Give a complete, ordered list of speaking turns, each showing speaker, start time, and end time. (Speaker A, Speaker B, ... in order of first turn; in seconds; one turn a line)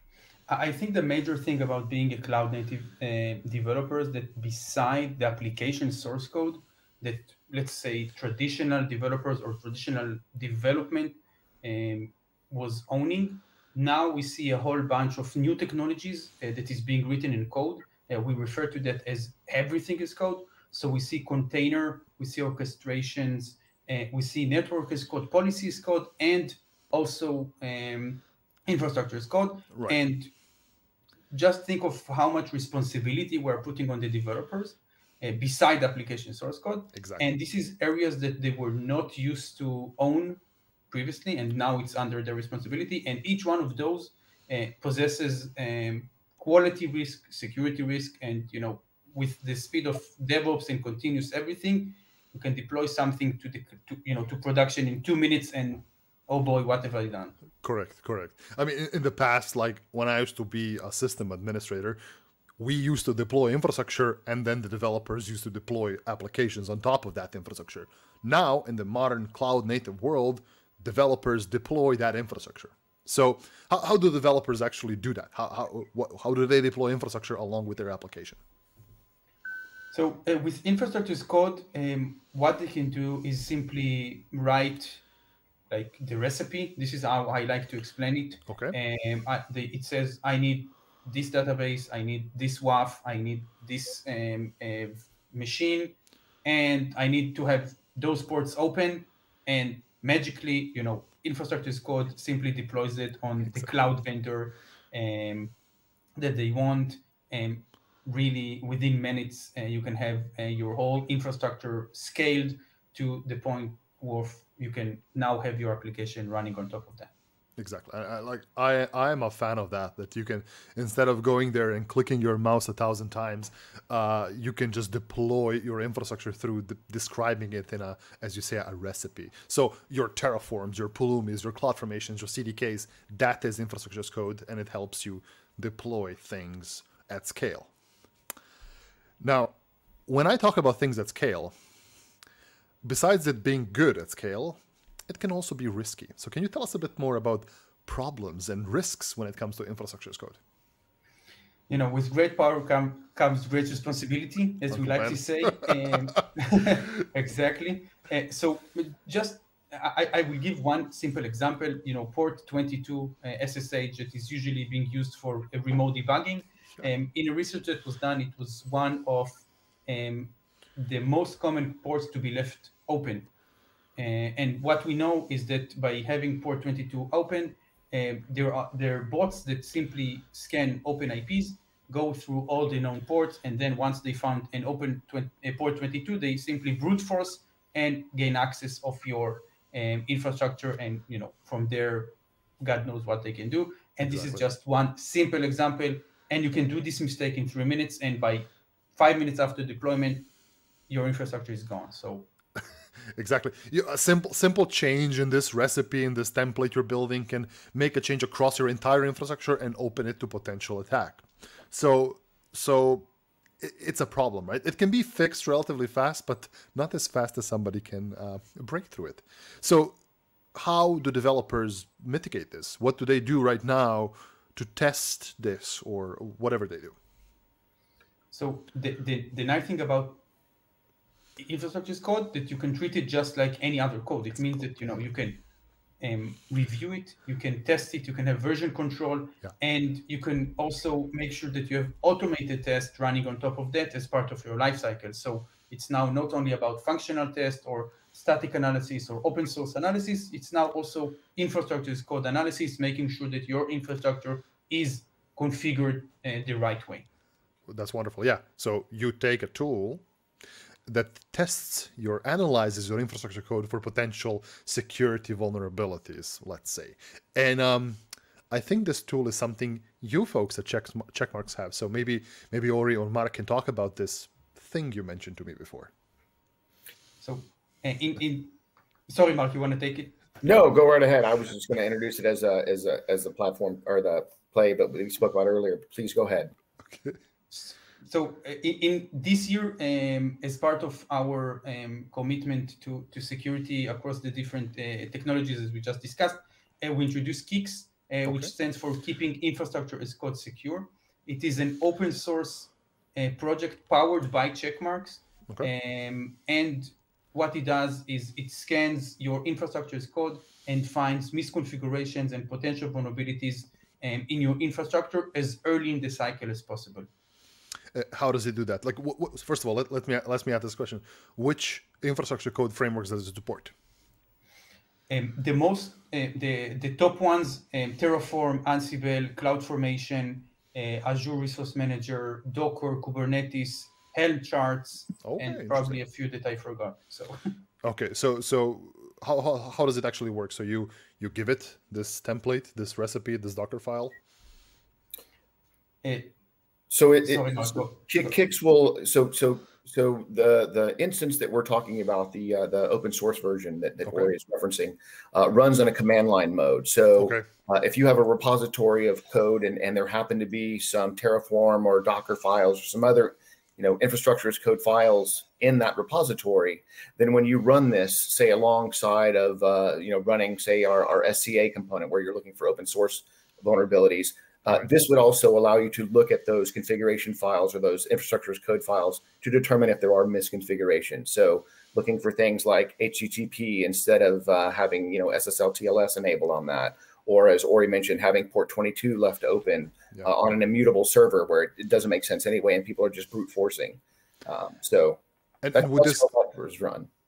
Speaker A: 0.5-30.3
Speaker B: 29.7-30.0
Speaker A: 31.3-57.4
Speaker B: 36.9-37.3
Speaker B: 57.6-62.0
Speaker B: 62.6-78.4
Speaker A: 79.9-85.0
Speaker A: 85.7-105.5
Speaker B: 88.5-88.8
Speaker A: 106.2-117.1
Speaker B: 117.6-137.7
Speaker B: 139.2-139.6
Speaker B: 140.1-141.5
Speaker B: 142.8-150.4
Speaker A: 151.7-173.3
Speaker B: 154.7-156.2
Speaker A: 174.0-200.3
Speaker B: 194.1-194.4
Speaker A: 200.9-202.3
Speaker B: 203.2-213.1
Speaker B: 213.6-220.0
Speaker B: 220.6-227.0
Speaker A: 228.3-230.2
Speaker A: 231.4-235.4
Speaker A: 236.0-257.1
Speaker B: 257.7-260.0
Speaker B: 260.9-268.0
Speaker B: 268.5-275.9
Speaker A: 277.2-278.6
Speaker A: 279.1-280.6
Speaker C: 280.4-286.5
Speaker B: 286.9-287.2
Speaker A: 287.5-317.1
Speaker B: 298.3-298.5
Speaker B: 317.9-323.7
Speaker A: 325.1-337.6
Speaker B: 335.2-336.0
Speaker B: 337.8-344.1
Speaker A: 346.0-346.4
Speaker C: 346.9-395.2
Speaker A: 347.2-348.3
Speaker B: 354.1-354.3
Speaker B: 357.2-357.4
Speaker B: 395.6-396.3
Speaker C: 395.7-397.1